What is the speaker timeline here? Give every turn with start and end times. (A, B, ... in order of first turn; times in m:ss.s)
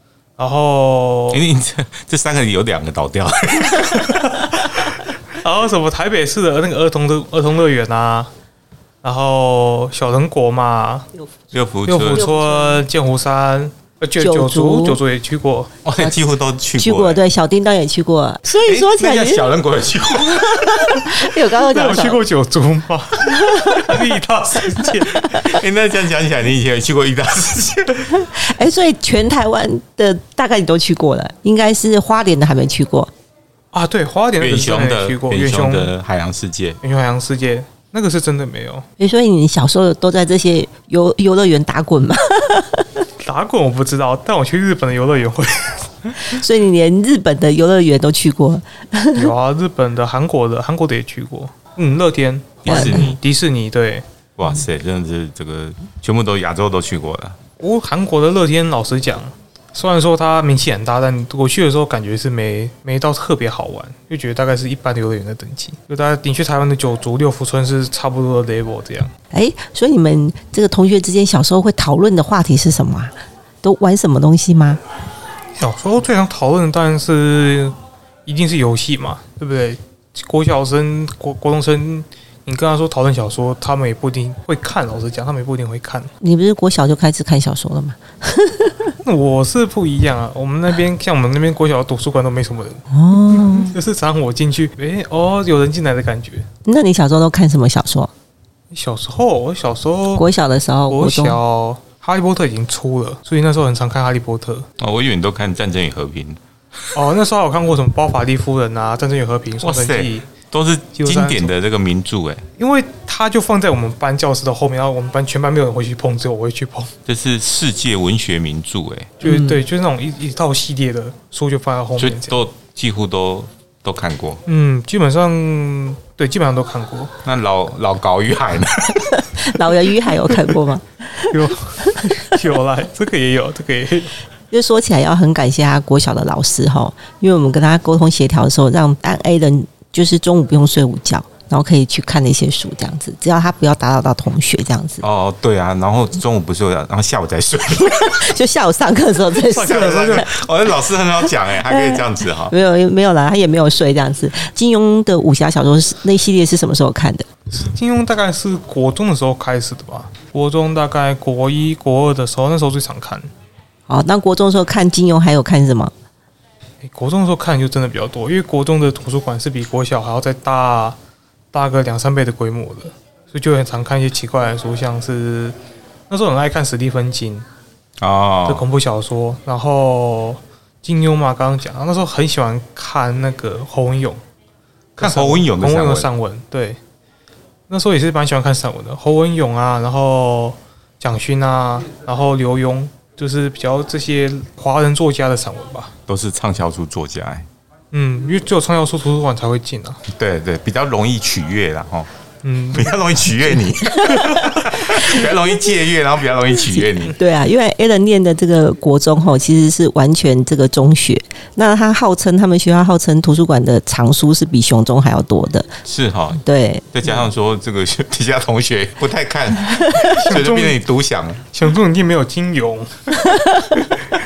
0:00.4-0:01.4 A
0:01.3-0:04.4 B
0:04.6-0:08.3 A
0:09.0-0:11.1 A
0:11.5-0:12.3 B
0:11.9-0:15.7 A
0:12.0-0:12.8 C
0:14.2-0:15.0 C
0:15.8-0:17.2 B
0:16.8-0:19.5 C
0:18.6-0:21.1 B
0:20.6-0:22.2 C
0:21.6-0:25.4 A
0:25.2-0:28.1 B
0:28.1-0:33.1 C
0:33.7-0:35.9 A
0:34.4-0:36.8 B
0:36.8-0:38.9 A
0:39.0-0:42.9 C
0:43.2-0:45.9 A
0:46.3-0:49.3 C
0:49.2-0:54.0 A
0:52.6-0:53.2 B
0:52.7-0:53.1 C
0:54.4-0:57.4 B
0:57.6-1:09.1 A
1:09.3-1:14.8 C
1:15.6-1:17.7 A
1:18.3-1:26.1 A
1:26.2-1:29.0 C
1:29.0-1:36.5 A
1:32.9-1:33.8 C
1:36.7-1:38.1 C
1:38.7-1:40.3 A
1:40.1-1:41.4 C
1:40.9-1:44.7 A
1:44.8-1:46.4 B
1:46.9-1:50.3 A
1:49.6-1:52.4 B
1:51.0-1:51.5 A
1:52.6-1:56.9 A
1:57.1-1:59.2 B
1:59.2-2:02.4 A
1:59.2-1:59.6 C
2:02.0-2:04.4 B
2:04.5-2:07.1 A
2:07.2-2:09.3 B
2:09.2-2:12.4 C
2:11.3-2:14.2 A
2:14.5-2:25.0 C
2:25.0-2:28.4 B
2:28.0-2:30.2 C
2:29.4-2:30.3 A
2:29.6-2:32.5 B
2:31.6-2:37.3 C
2:37.5-2:43.3 A
2:43.9-2:45.9 C
2:46.8-2:51.0 A
2:51.5-2:55.6 A
2:56.1-2:57.4 A
2:58.0-2:58.7 B
2:58.5-3:04.2 A
3:05.0-3:06.8 A
3:05.0-3:06.1 B
3:07.7-3:15.9 A
3:16.1-3:17.5 B
3:17.9-3:20.0 A
3:20.1-3:22.1 B
3:22.4-3:23.0 A
3:22.7-3:27.2 B
3:27.1-3:35.7 C
3:35.8-3:36.4 B
3:36.4-3:37.0 C
3:36.9-3:41.5 B
3:40.0-3:40.3 C
3:40.1-3:40.8 A
3:41.5-3:43.4 A
3:43.3-3:43.8 C